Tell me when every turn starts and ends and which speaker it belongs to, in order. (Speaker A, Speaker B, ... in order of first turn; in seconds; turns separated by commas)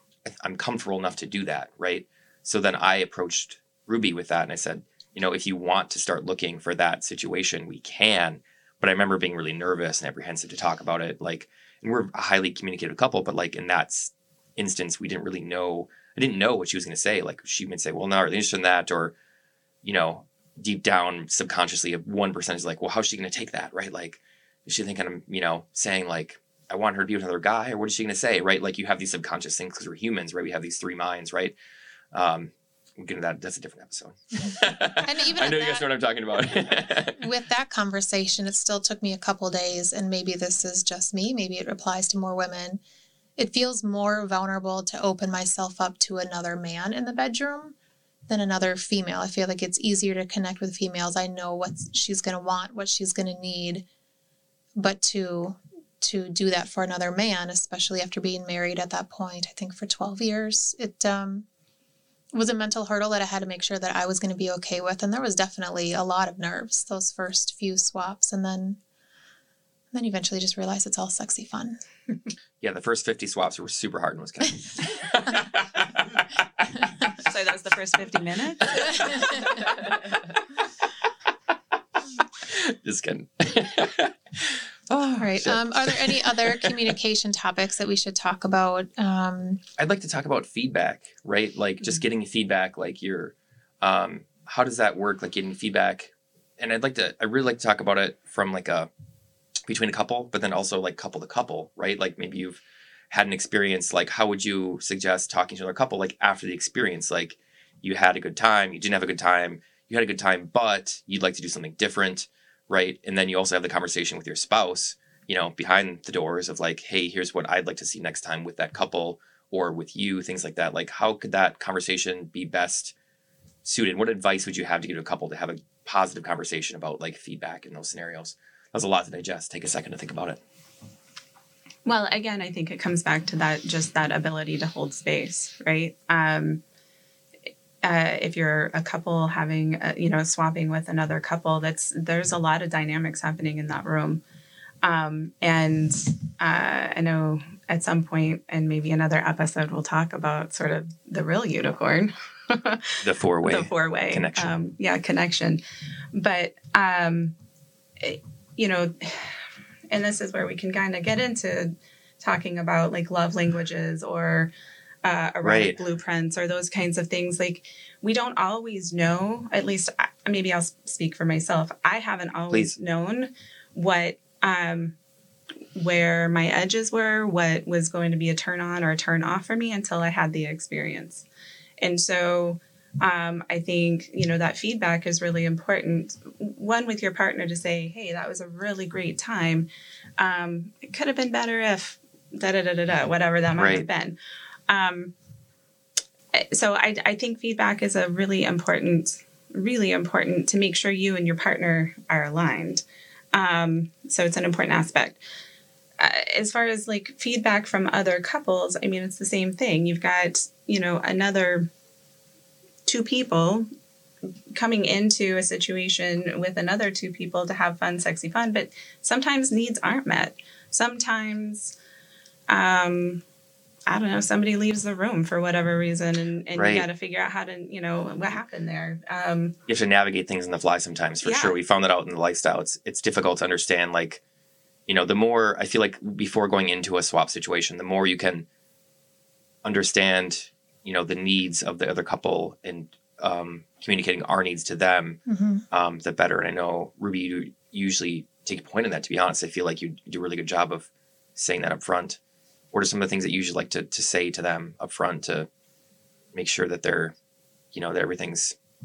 Speaker A: 0.2-19.1, Speaker A: 19.8-31.5, Speaker A: 32.1-37.2, Speaker B: 35.0-35.9, Speaker B: 37.2-42.8, Speaker B: 43.4-47.8, Speaker B: 48.3-53.8, Speaker B: 54.8-61.5, Speaker B: 62.3-68.8, Speaker B: 69.9-71.8, Speaker A: 72.6-76.2, Speaker C: 77.2-79.1, Speaker A: 82.4-86.9, Speaker B: 85.2-89.6, Speaker A: 89.8-98.9, Speaker A: 99.7-122.9, Speaker A: 123.6-130.4, Speaker C: 131.8-136.6, Speaker C: 137.8-144.2, Speaker C: 144.8-155.6, Speaker A: 153.0-154.5, Speaker C: 156.1-157.3, Speaker C: 158.0-164.5, Speaker C: 165.0-175.0, Speaker A: 165.4-165.8, Speaker A: 172.5-172.8, Speaker C: 175.8-181.2, Speaker C: 181.8-194.2, Speaker A: 193.6-193.9, Speaker C: 194.7-195.1, Speaker C: 196.3-205.2, Speaker C: 206.0-211.7, Speaker C: 212.9-213.7, Speaker C: 214.5-221.8, Speaker C: 222.5-223.2, Speaker C: 223.9-229.6, Speaker A: 226.6-226.9, Speaker A: 229.7-234.2, Speaker C: 231.2-231.6, Speaker A: 234.9-238.5, Speaker A: 239.6-245.2, Speaker B: 245.3-245.6, Speaker A: 245.7-252.2, Speaker A: 252.7-255.5, Speaker A: 256.3-257.1, Speaker A: 257.7-258.6